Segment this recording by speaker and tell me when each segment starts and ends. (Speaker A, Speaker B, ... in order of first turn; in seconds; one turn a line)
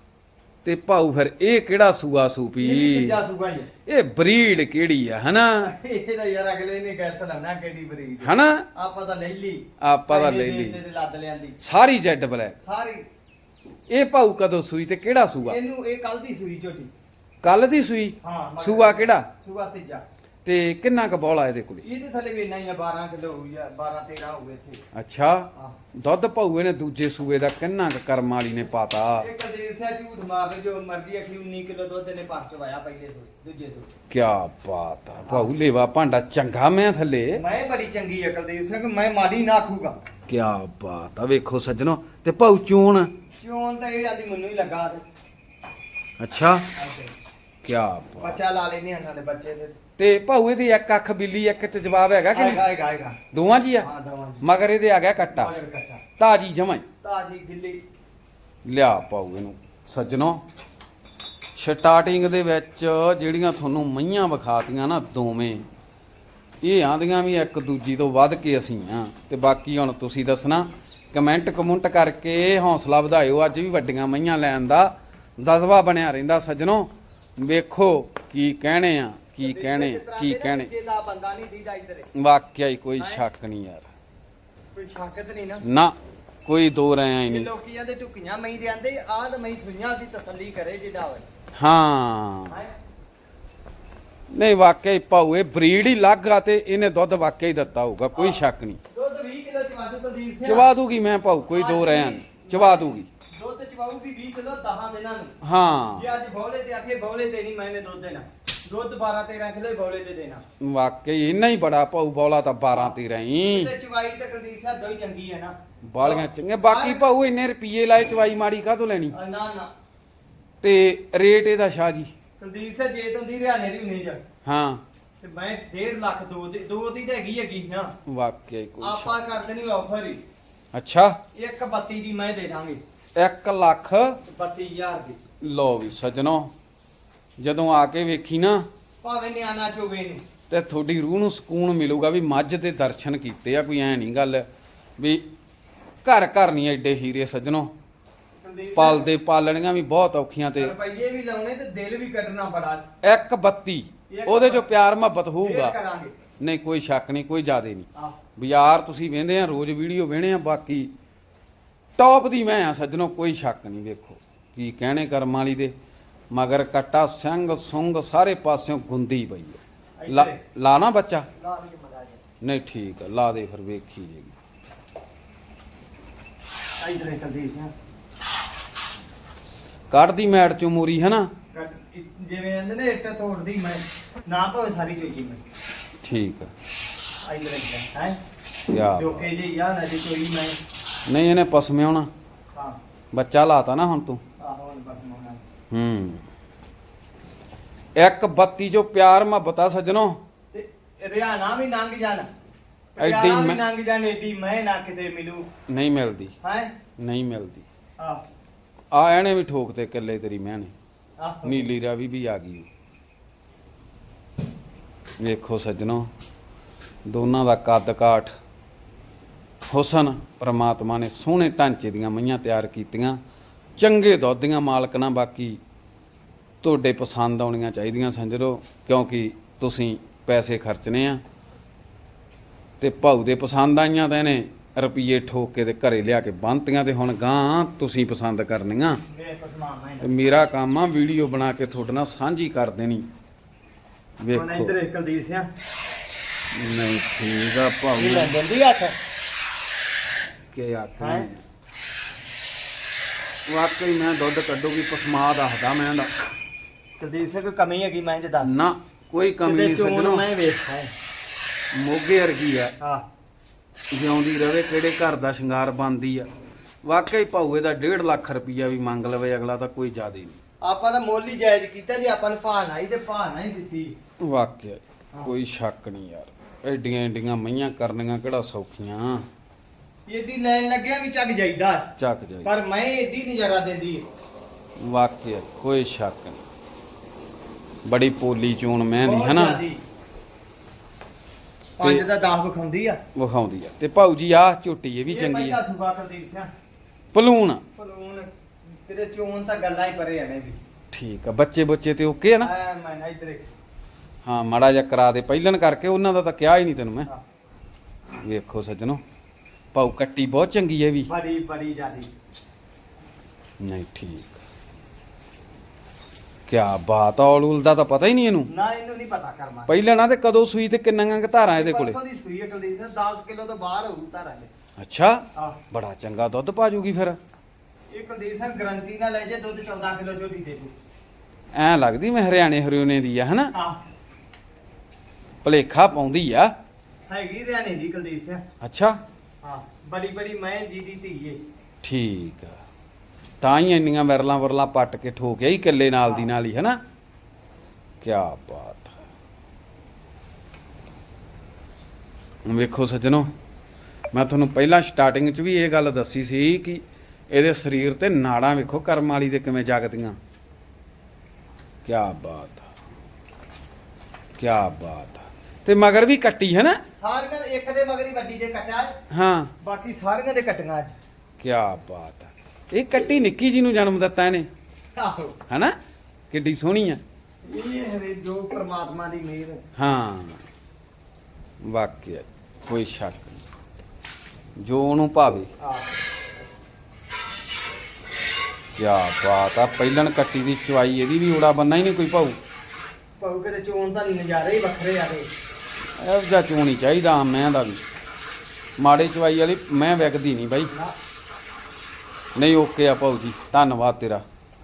Speaker A: 0.6-3.2
Speaker B: 2.6-3.7
Speaker A: 3.9-5.7
Speaker B: 5.6-11.6
Speaker A: 8.2-8.7
Speaker A: 9.8-10.8
Speaker A: 11.6-12.6
Speaker B: 12.6-13.1
Speaker A: 13.9-15.6
Speaker B: 15.4-16.9
Speaker A: 17.4-19.3
Speaker B: 18.2-20.1
Speaker A: 20.4-21.9
Speaker B: 21.8-24.8
Speaker A: 24.9-29.3
Speaker B: 29.2-33.9
Speaker A: 34.1-37.4
Speaker B: 35.3-35.5
Speaker B: 37.4-40.0
Speaker A: 40.3-43.1
Speaker B: 43.4-45.0
Speaker A: 46.2-46.7
Speaker B: 46.8-47.1
Speaker A: 47.6-48.4
Speaker B: 48.2-49.8
Speaker A: 50.0-52.6
Speaker B: 52.3-53.2
Speaker A: 53.3-53.9
Speaker B: 53.8-54.5
Speaker A: 54.4-55.5
Speaker B: 55.3-56.0
Speaker A: 56.2-56.8
Speaker B: 57.0-57.8
Speaker A: 58.6-60.4
Speaker A: 61.5-65.7
Speaker A: 66.6-80.7
Speaker B: 79.4-82.1
Speaker A: 82.2-83.9
Speaker B: 83.0-83.2
Speaker B: 84.8-85.6
Speaker A: 85.7-87.5
Speaker B: 87.3-91.3
Speaker A: 91.6-92.6
Speaker A: 94.3-98.8
Speaker B: 98.2-100.7
Speaker A: 100.4-103.1
Speaker B: 101.5-105.3
Speaker A: 105.4-106.1
Speaker B: 105.9-110.4
Speaker A: 110.6-113.7
Speaker B: 113.5-117.1
Speaker A: 115.9-119.2
Speaker B: 119.1-119.7
Speaker A: 120.6-122.1
Speaker B: 122.4-124.2
Speaker A: 124.4-124.8
Speaker B: 125.2-127.9
Speaker A: 128.1-129.2
Speaker B: 128.8-130.2
Speaker A: 130.7-131.2
Speaker B: 131.3-132.8
Speaker A: 133.2-134.2
Speaker B: 134.2-135.2
Speaker A: 135.4-136.5
Speaker A: 137.4-138.7
Speaker B: 139.0-140.2
Speaker A: 140.5-144.5
Speaker A: 145.0-145.3
Speaker A: 146.0-147.7
Speaker B: 148.4-149.1
Speaker A: 148.8-150.7
Speaker B: 150.6-152.9
Speaker A: 153.0-155.8
Speaker B: 154.1-154.7
Speaker B: 155.4-156.2
Speaker A: 156.4-160.9
Speaker A: 162.0-165.7
Speaker A: 166.3-171.3
Speaker B: 170.0-170.4
Speaker B: 171.4-172.2
Speaker A: 172.4-174.3
Speaker B: 176.8-177.7
Speaker A: 179.9-181.3
Speaker B: 181.5-185.4
Speaker A: 186.0-186.5
Speaker B: 187.2-188.2
Speaker A: 188.7-189.3
Speaker B: 189.0-190.6
Speaker A: 191.1-192.1
Speaker A: 193.1-194.2
Speaker B: 194.4-195.4
Speaker A: 195.7-196.2
Speaker A: 198.0-200.2
Speaker B: 200.5-202.3
Speaker B: 203.0-205.5
Speaker A: 203.0-203.6
Speaker A: 205.7-206.4
Speaker B: 206.4-206.7
Speaker A: 207.0-207.7
Speaker A: 208.9-210.7
Speaker B: 211.2-211.7
Speaker A: 211.4-212.7
Speaker A: 215.2-216.1
Speaker A: 217.1-218.3
Speaker A: 219.7-223.2
Speaker A: 223.8-225.6
Speaker A: 226.6-231.2
Speaker A: 232.8-239.0
Speaker B: 239.1-240.1
Speaker A: 240.0-243.1
Speaker A: 244.2-244.7
Speaker B: 244.3-245.5
Speaker A: 246.5-248.4
Speaker B: 248.0-249.0
Speaker A: 250.5-251.4
Speaker B: 251.0-251.3
Speaker A: 253.5-256.1
Speaker B: 257.0-258.5
Speaker A: 258.4-260.3
Speaker B: 259.4-260.9
Speaker A: 261.7-262.8
Speaker B: 262.8-263.1
Speaker A: 263.9-266.3
Speaker A: 266.8-270.4
Speaker B: 270.6-273.9
Speaker A: 274.2-279.3
Speaker B: 280.1-281.9
Speaker A: 282.0-282.5
Speaker B: 282.4-284.1
Speaker A: 284.8-286.4
Speaker A: 287.9-289.6
Speaker B: 289.0-289.8
Speaker B: 291.8-293.0
Speaker A: 291.8-292.1
Speaker A: 293.1-295.6
Speaker B: 295.1-296.5
Speaker A: 297.1-297.6
Speaker B: 297.8-300.6
Speaker A: 300.9-302.5
Speaker B: 302.4-303.5
Speaker A: 304.2-307.1
Speaker A: 308.2-309.0
Speaker A: 309.7-311.1
Speaker B: 311.1-312.1
Speaker A: 313.6-314.4
Speaker A: 316.5-318.5
Speaker B: 318.5-319.8
Speaker A: 319.7-322.0
Speaker B: 321.5-324.5
Speaker A: 324.8-327.2
Speaker B: 325.4-325.6
Speaker B: 327.9-330.7
Speaker A: 331.5-333.5
Speaker B: 333.5-333.8
Speaker A: 335.4-336.5
Speaker B: 337.1-338.4
Speaker A: 338.6-339.0
Speaker B: 339.4-341.4
Speaker A: 341.8-342.6
Speaker A: 343.4-346.8
Speaker A: 348.0-348.9
Speaker A: 352.4-353.3
Speaker A: 354.1-360.2
Speaker A: 361.9-362.7
Speaker A: 364.4-366.8
Speaker B: 367.0-368.9
Speaker A: 369.1-369.5
Speaker B: 369.6-371.0
Speaker A: 371.4-374.5
Speaker B: 374.9-375.4
Speaker A: 375.5-375.8
Speaker A: 376.3-377.0
Speaker B: 377.4-379.6
Speaker A: 379.8-380.4
Speaker A: 381.6-383.4
Speaker A: 384.6-385.5
Speaker B: 385.6-385.9
Speaker A: 388.8-392.4
Speaker B: 393.2-395.3
Speaker A: 396.0-397.8
Speaker A: 398.8-400.7
Speaker A: 402.4-404.2